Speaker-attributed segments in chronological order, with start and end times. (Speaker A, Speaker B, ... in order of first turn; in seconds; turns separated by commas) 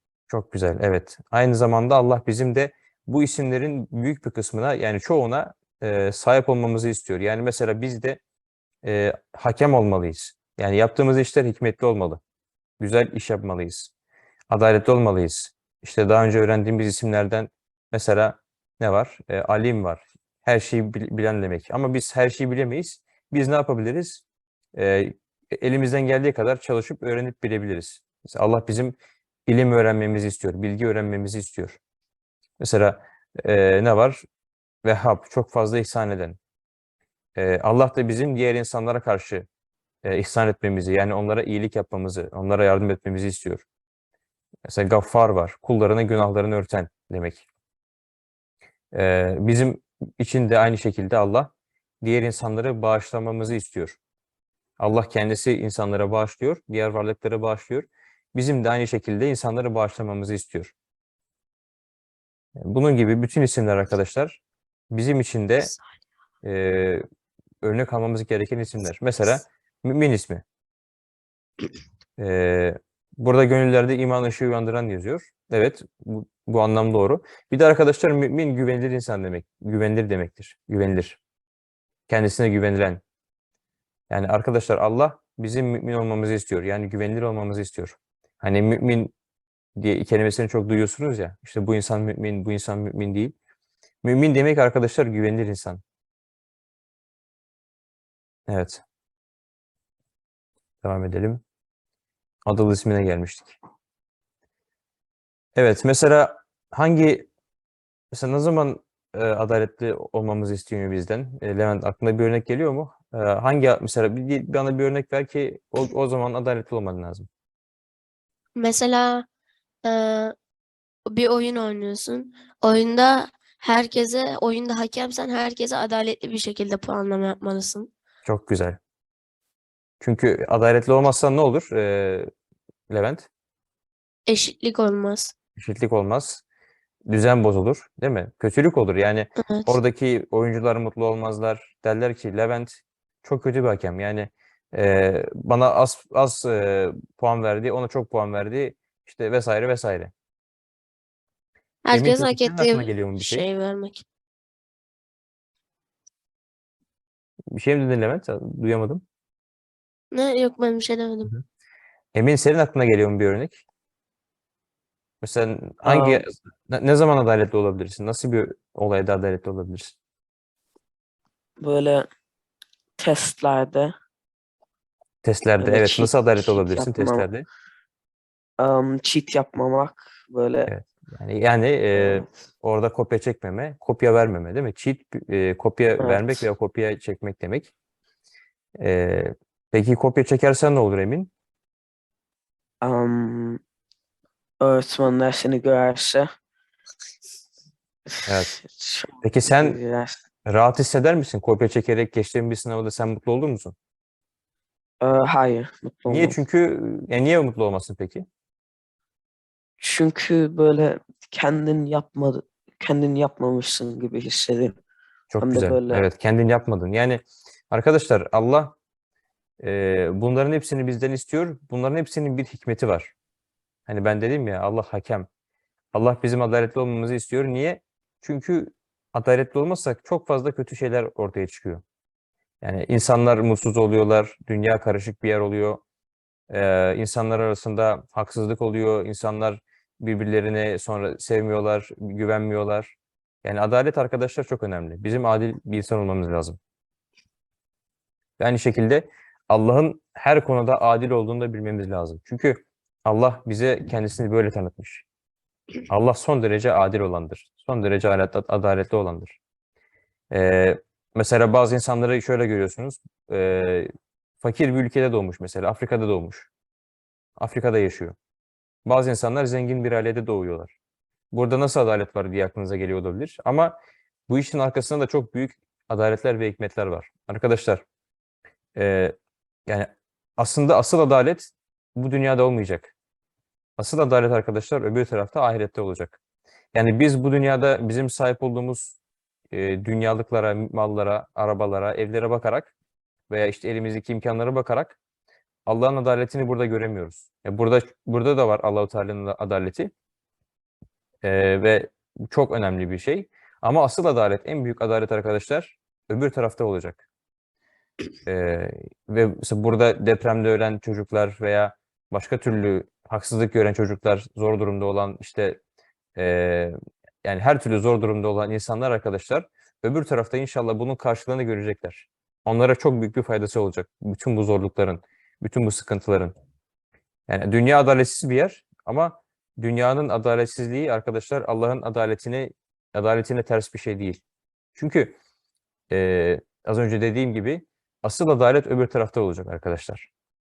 Speaker A: 0.3-8.2, Speaker A: 8.8-12.2, Speaker A: 12.8-13.9, Speaker A: 14.5-24.2, Speaker A: 24.7-31.8, Speaker A: 32.6-34.2, Speaker A: 34.8-36.4, Speaker A: 37.4-39.5, Speaker A: 40.0-43.6, Speaker A: 44.7-47.5, Speaker A: 48.9-51.5, Speaker A: 52.0-54.0, Speaker A: 54.8-60.7, Speaker A: 62.6-65.7, Speaker A: 66.4-67.0, Speaker A: 67.6-70.4, Speaker A: 72.2-81.2, Speaker A: 82.1-83.0, Speaker A: 84.1-89.1, Speaker A: 89.8-93.3, Speaker A: 94.0-95.8, Speaker A: 98.5-98.8, Speaker A: 100.8-101.4, Speaker A: 102.5-103.6, Speaker A: 105.5-107.3, Speaker A: 108.1-117.3, Speaker B: 118.5-119.2, Speaker B: 119.8-120.3, Speaker B: 121.1-127.9, Speaker A: 128.2-128.8, Speaker A: 130.0-132.3, Speaker A: 132.9-133.3, Speaker B: 134.3-135.3, Speaker A: 135.6-136.4, Speaker A: 137.1-150.1, Speaker B: 139.4-139.7, Speaker B: 151.8-154.0, Speaker A: 151.9-153.4, Speaker A: 157.5-159.0, Speaker B: 160.1-161.3, Speaker A: 162.1-163.6, Speaker A: 165.2-169.9, Speaker C: 165.8-166.2, Speaker C: 171.6-172.1, Speaker C: 173.0-173.9, Speaker A: 175.2-177.4, Speaker C: 175.6-177.3, Speaker C: 178.6-180.7, Speaker A: 180.7-187.7, Speaker C: 181.9-182.2, Speaker C: 186.0-186.3, Speaker A: 188.8-191.3, Speaker C: 192.8-193.6, Speaker C: 194.6-196.3, Speaker A: 198.2-198.5, Speaker C: 198.6-200.1, Speaker A: 199.2-199.8, Speaker A: 200.4-203.7, Speaker C: 205.0-206.4, Speaker A: 206.1-208.2, Speaker C: 209.8-214.7, Speaker A: 215.3-218.8, Speaker C: 215.4-216.0, Speaker A: 219.6-223.1, Speaker A: 223.9-225.3, Speaker A: 225.9-231.8, Speaker A: 232.6-235.8, Speaker A: 236.5-246.6, Speaker A: 248.4-255.0, Speaker A: 255.9-259.4, Speaker A: 260.3-263.9, Speaker A: 264.4-266.5, Speaker A: 267.4-268.1, Speaker A: 268.9-270.7, Speaker A: 271.3-273.8, Speaker A: 274.3-277.8, Speaker A: 278.8-279.1, Speaker A: 279.7-282.9, Speaker A: 283.8-286.2, Speaker A: 286.7-289.0, Speaker A: 289.5-292.7, Speaker A: 293.3-295.0, Speaker A: 295.6-299.9, Speaker A: 301.2-307.0, Speaker A: 308.2-315.6, Speaker A: 316.1-326.3, Speaker A: 327.3-334.2, Speaker A: 334.8-335.1, Speaker A: 335.9-340.1